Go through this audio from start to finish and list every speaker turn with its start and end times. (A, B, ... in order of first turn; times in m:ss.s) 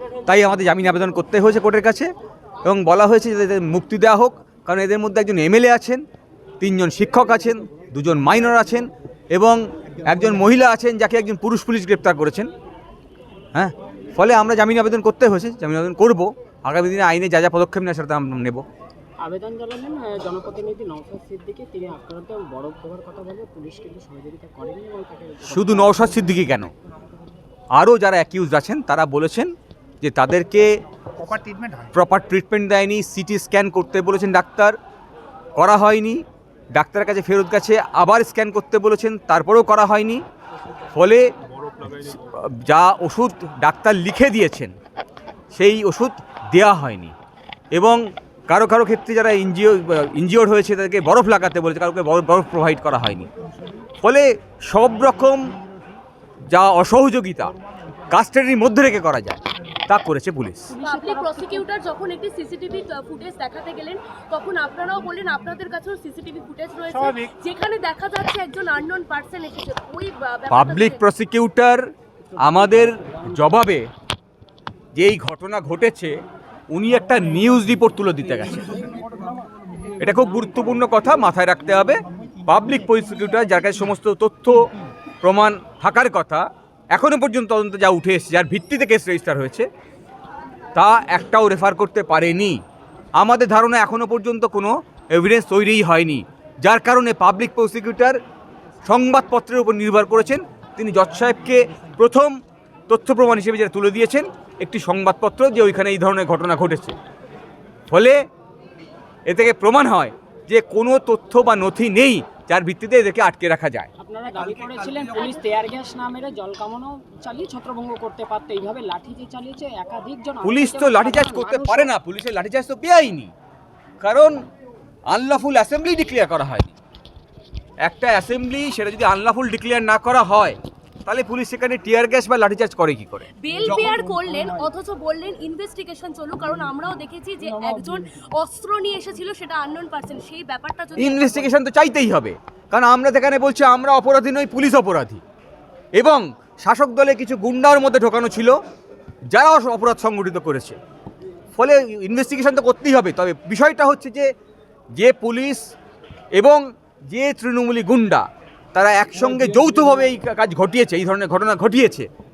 0:00.2-0:02.1 A
0:02.6-0:06.0 A
0:06.6-0:12.5 A
0:13.5-0:18.6 A
0:19.2-0:26.3 B
0:25.5-0:26.7 A
0:27.7-0:30.7 A
0:31.2-0:31.9 C
0:31.9-0:34.8 A
0:35.6-0:36.2 A
0:36.7-0:40.2 A
0:40.9-0:41.3 A
0:41.8-0:44.7 A
0:45.5-0:47.1 A
0:47.7-0:53.3 A
0:54.0-0:55.5 A
0:56.5-0:57.5 A
0:58.1-1:00.7 A
1:00.7-1:01.7 B
1:00.8-1:11.0 D
1:10.5-1:13.9 A
1:12.3-1:13.4 B
1:14.9-1:16.1 A
1:16.7-1:18.8 A
1:20.0-1:24.6 A
1:25.2-1:29.6 A
1:30.7-1:32.6 A
1:33.2-1:38.2 A
1:38.8-1:42.4 A
1:42.9-1:47.0 A
1:47.9-1:48.2 A
1:49.3-1:53.9 A
1:54.0-2:01.9 B
1:54.3-1:55.3 C
2:00.4-2:03.3 A
2:04.0-2:04.4 A
2:05.1-2:06.7 A
2:07.8-2:13.3 A
2:13.4-2:21.5 D
2:13.6-2:14.3 C
2:21.0-2:25.2 A
2:26.0-2:28.6 A
2:29.3-2:30.8 A
2:31.5-2:34.3 A
2:34.9-2:35.6 A
2:36.3-2:42.1 A
2:39.3-2:39.8 C